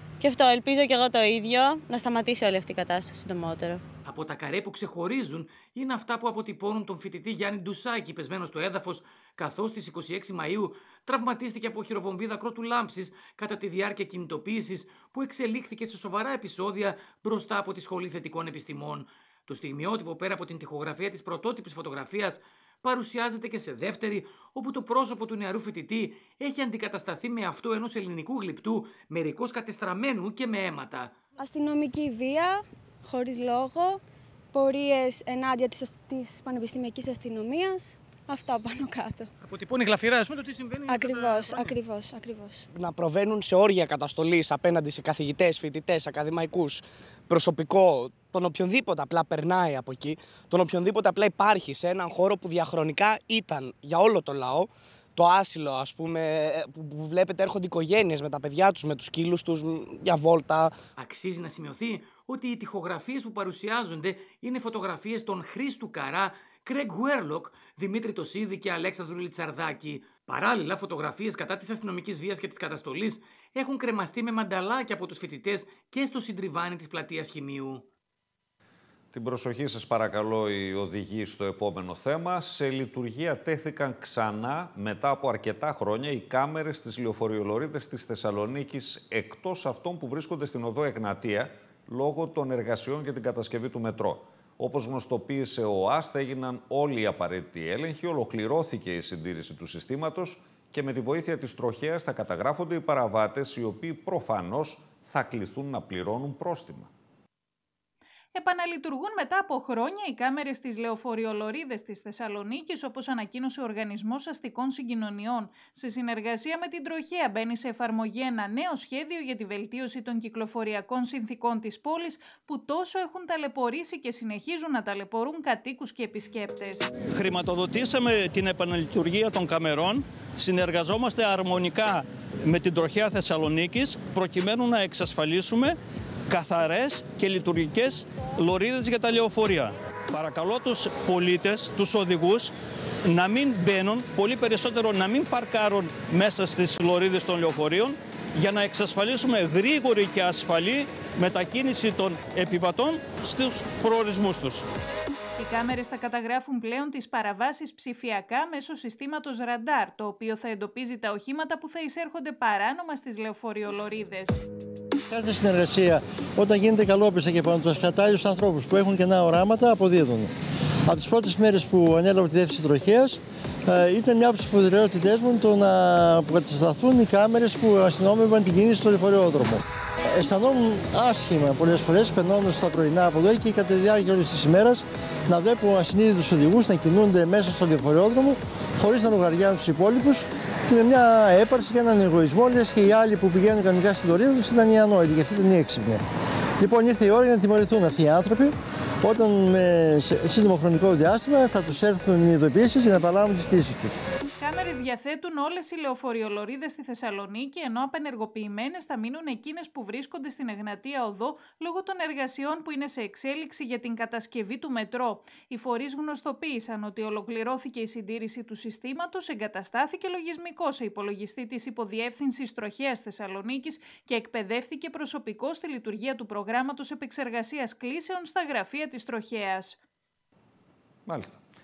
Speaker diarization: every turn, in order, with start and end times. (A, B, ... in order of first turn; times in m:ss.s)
0:00.2-0:03.8 A
0:04.0-0:31.1 B
0:31.4-0:34.0 C
0:34.5-0:39.3 C
0:39.4-0:41.8 B
0:40.9-0:42.7 C
0:42.7-1:00.7 D
1:01.0-1:17.8 B
1:19.1-1:46.9 E
1:48.3-2:07.0 F
2:07.0-2:15.8 G
2:16.3-2:22.5 G
2:23.1-2:34.6 G
2:35.4-2:44.4 F
2:45.1-2:50.3 H
2:50.9-2:59.6 H
3:00.1-3:16.0 H
3:16.6-3:24.0 H
3:24.4-3:49.8 F
3:51.1-3:51.4 E